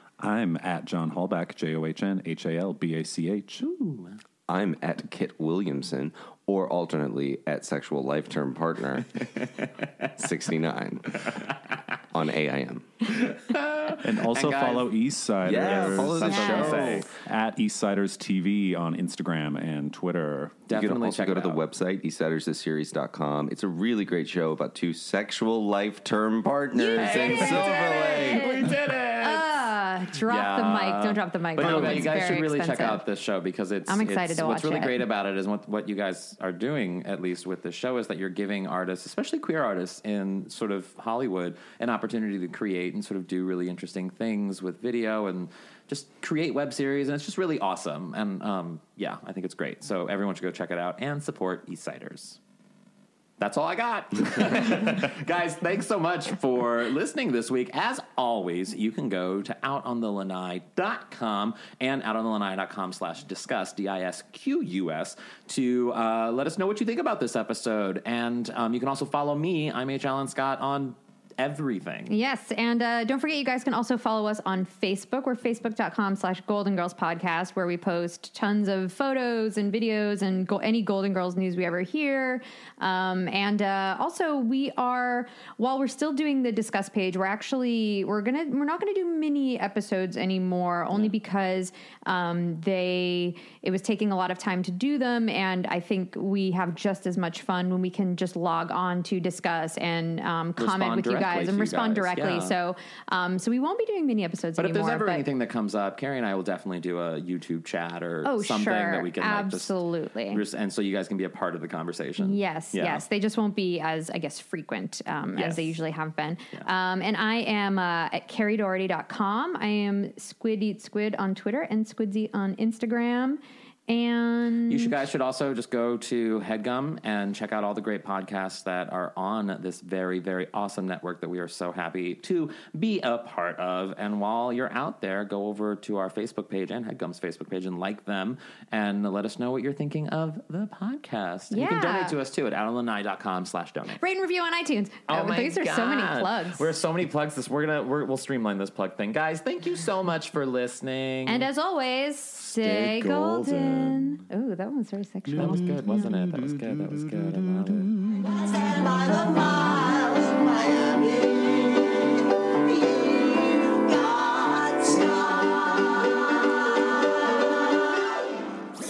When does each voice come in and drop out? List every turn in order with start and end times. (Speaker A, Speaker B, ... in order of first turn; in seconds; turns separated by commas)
Speaker A: 0.2-3.7, Speaker B: 3.6-4.2, Speaker C: 4.5-9.3, Speaker C: 10.2-11.4, Speaker C: 12.1-12.9, Speaker B: 13.1-14.9, Speaker A: 14.0-20.7, Speaker C: 15.4-17.1, Speaker B: 15.6-17.1, Speaker B: 20.7-21.6, Speaker C: 20.7-28.6, Speaker D: 26.8-33.0, Speaker B: 26.9-52.4, Speaker C: 31.6-32.1, Speaker D: 33.9-35.0, Speaker B: 53.4-72.1, Speaker D: 72.1-105.3, Speaker B: 100.6-102.6, Speaker B: 104.6-109.8, Speaker D: 108.2-110.4, Speaker B: 110.3-113.0, Speaker D: 112.2-125.0, Speaker B: 115.4-115.8, Speaker B: 124.7-144.0, Speaker D: 141.5-142.2, Speaker D: 144.0-146.7, Speaker B: 145.1-151.5, Speaker D: 151.3-155.7, Speaker B: 152.4-154.0, Speaker B: 155.3-157.9, Speaker E: 158.2-162.0, Speaker E: 162.6-166.4